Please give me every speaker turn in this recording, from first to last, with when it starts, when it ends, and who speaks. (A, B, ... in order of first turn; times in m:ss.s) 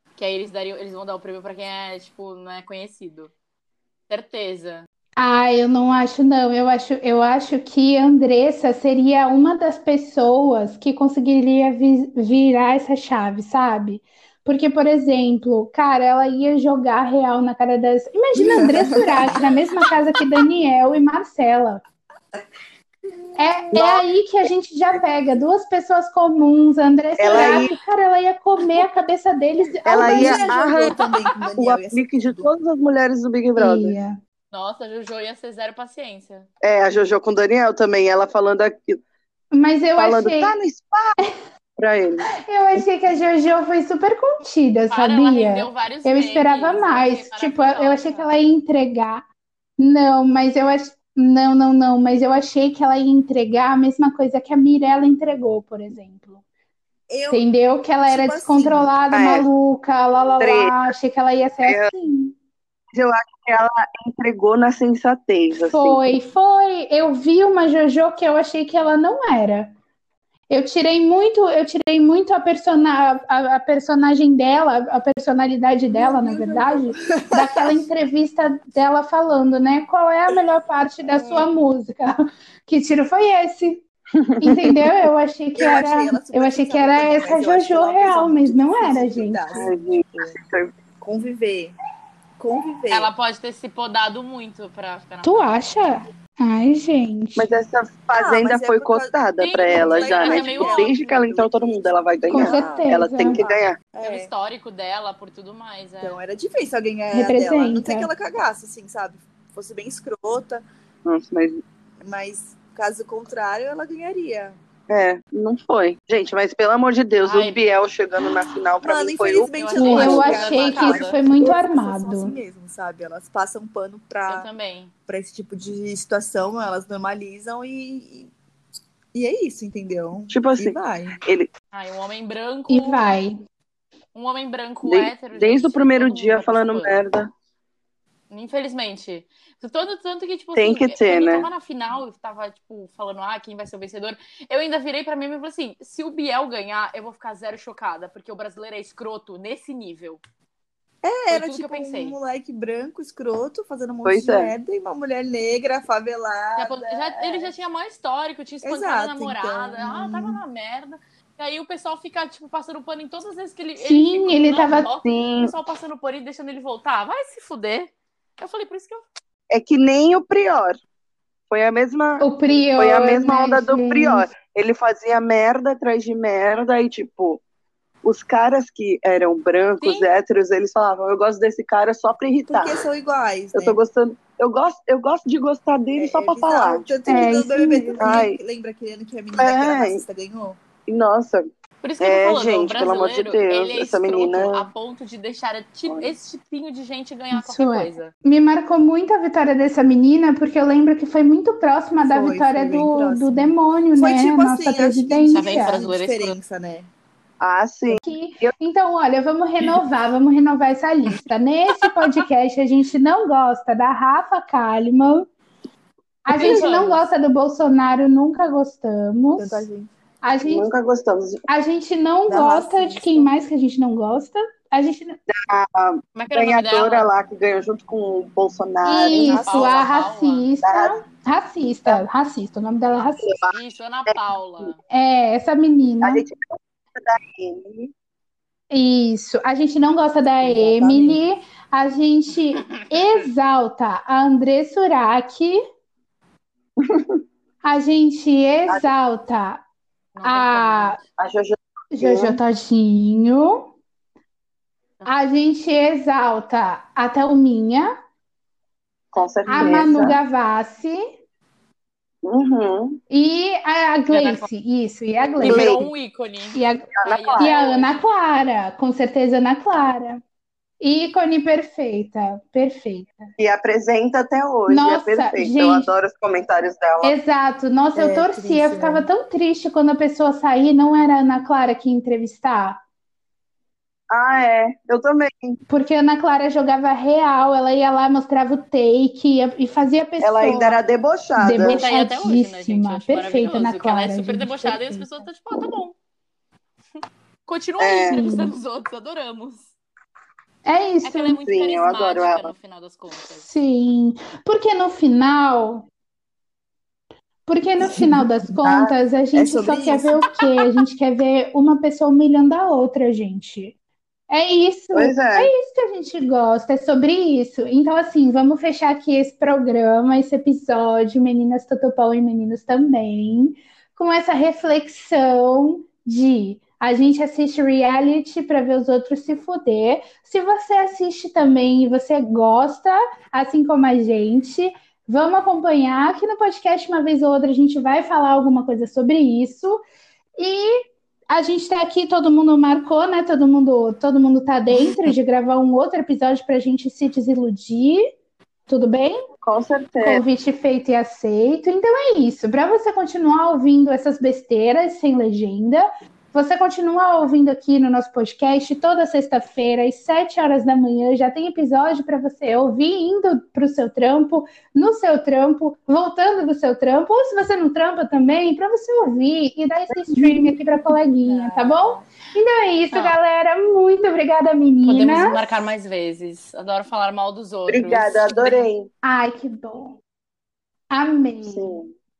0:00.2-0:03.3 A
0:04.1-0:04.8 A
0:05.2-0:21.8 B
0:18.3-0:19.4 C
0:23.4-0:30.7 B
0:23.7-0:24.0 D
0:27.2-0:27.7 D
0:29.8-0:30.9 D
0:30.0-0:32.5 C
0:31.6-0:34.0 D
0:33.6-0:34.2 B
0:34.5-0:36.5 A
0:36.6-0:39.0 D
0:39.5-0:40.5 B
0:40.0-0:41.2 D
0:41.8-0:42.3 D
0:42.4-0:49.2 B
0:44.9-0:48.3 A
0:49.8-0:56.4 B
0:57.1-0:57.5 C
0:57.3-1:02.3 B
0:58.0-0:59.0 C
0:59.1-0:59.5 D
1:00.4-1:00.9 D
1:01.6-1:01.9 D
1:02.9-1:06.2 D
1:05.6-1:09.7 B
1:10.5-1:22.1 B
1:15.9-1:17.8 C
1:21.2-1:21.4 C
1:22.7-1:23.8 B
1:24.2-1:24.8 D
1:24.4-1:29.4 B
1:25.5-1:30.4 C
1:29.5-1:30.7 D
1:31.0-1:31.8 C
1:32.4-1:33.1 C
1:32.9-1:35.6 A
1:35.2-1:37.5 B
1:37.4-1:43.8 D
1:38.1-1:44.3 C
1:39.4-1:41.0 A
1:42.3-1:43.4 B
1:44.0-1:46.2 A
1:46.0-1:50.6 C
1:47.1-1:48.1 B
1:51.0-1:51.6 D
1:52.0-1:54.6 C
1:54.9-2:00.4 D
1:57.2-1:57.6 A
1:58.8-2:04.5 C
1:59.5-2:01.1 A
1:59.8-2:02.4 B
2:04.2-2:04.9 A
2:05.1-2:08.3 C
2:09.1-2:11.2 C
2:10.3-2:11.5 D
2:11.7-2:13.0 A
2:12.7-2:13.4 B
2:14.1-2:17.0 A
2:14.8-2:17.3 D
2:18.3-2:30.2 A
2:20.5-2:21.5 D
2:31.0-2:37.2 C
2:31.3-2:32.2 A
2:34.0-2:34.5 D
2:36.6-2:49.0 A
2:38.6-2:40.4 C
2:43.8-2:44.9 B
2:45.0-2:45.5 D
2:49.5-2:50.8 D
2:51.5-2:52.2 D
2:52.2-2:54.3 B
2:52.8-2:57.4 D
2:58.0-3:02.8 D
2:59.8-3:00.1 A
3:02.5-3:03.8 C
3:03.5-3:07.2 D
3:06.0-3:10.6 C
3:07.1-3:08.3 B
3:08.0-3:08.4 D
3:09.4-3:10.0 D
3:10.9-3:11.5 D
3:11.8-3:18.1 A
3:12.0-3:14.7 D
3:15.9-3:16.1 D
3:17.3-3:25.8 B
3:22.0-3:26.9 C
3:25.3-3:26.4 A
3:27.4-3:28.5 D
3:28.0-3:35.3 B
3:36.2-3:39.6 B
3:36.3-3:37.0 A
3:39.3-3:39.9 C
3:40.2-3:40.7 B
3:40.4-3:41.4 D
3:41.5-3:45.2 B
3:42.3-3:43.3 C
3:45.3-3:49.6 D
3:46.2-3:47.1 A
3:48.8-3:53.3 B
3:49.1-3:50.5 A
3:49.1-3:49.8 C
3:50.6-3:51.0 D
3:53.2-3:53.6 D
3:53.5-3:54.8 A
3:54.1-3:54.7 D
3:54.9-3:56.2 B
3:56.0-3:57.9 D
3:58.7-4:05.6 B
4:00.4-4:01.2 C
4:02.6-4:02.8 A
4:06.8-4:07.2 D
4:07.6-4:09.6 B
4:10.1-4:11.0 A
4:10.2-4:11.0 B
4:11.2-4:12.4 D
4:11.9-4:13.7 B
4:15.0-4:17.9 B
4:19.1-4:20.2 D
4:19.5-4:21.0 B
4:19.5-4:19.8 A
4:22.2-4:23.0 D
4:23.1-4:25.8 B
4:24.1-4:24.5 A
4:25.4-4:28.0 A
4:25.4-4:25.8 D
4:26.5-4:30.2 B
4:27.0-4:27.5 D
4:30.8-4:33.3 B
4:33.4-4:37.1 D
4:34.7-4:35.9 B
4:37.0-4:42.8 B
4:37.9-4:39.1 C
4:44.1-4:45.6 D
4:45.7-4:50.8 B
4:50.2-4:51.8 D
4:51.4-4:55.2 B
4:51.6-4:56.0 A
4:57.4-4:59.7 A
4:57.8-4:58.2 D
4:58.1-4:58.5 B
5:00.6-5:01.4 B
5:01.0-5:03.4 A
5:01.4-5:02.5 D
5:03.3-5:05.9 B
5:07.5-5:13.7 B
5:07.8-5:08.3 C
5:08.6-5:08.9 D
5:09.3-5:10.2 C
5:14.3-5:39.8 B
5:14.9-5:15.5 D
5:40.4-5:40.7 B
5:41.3-5:48.0 B
5:48.7-5:49.2 B
5:49.4-5:50.2 D
5:50.0-6:15.6 B
6:09.9-6:10.4 D
6:11.2-6:12.0 C
6:14.8-6:18.7 A
6:17.7-6:18.9 D
6:19.0-6:20.0 B
6:20.9-6:21.8 B
6:21.4-6:21.9 D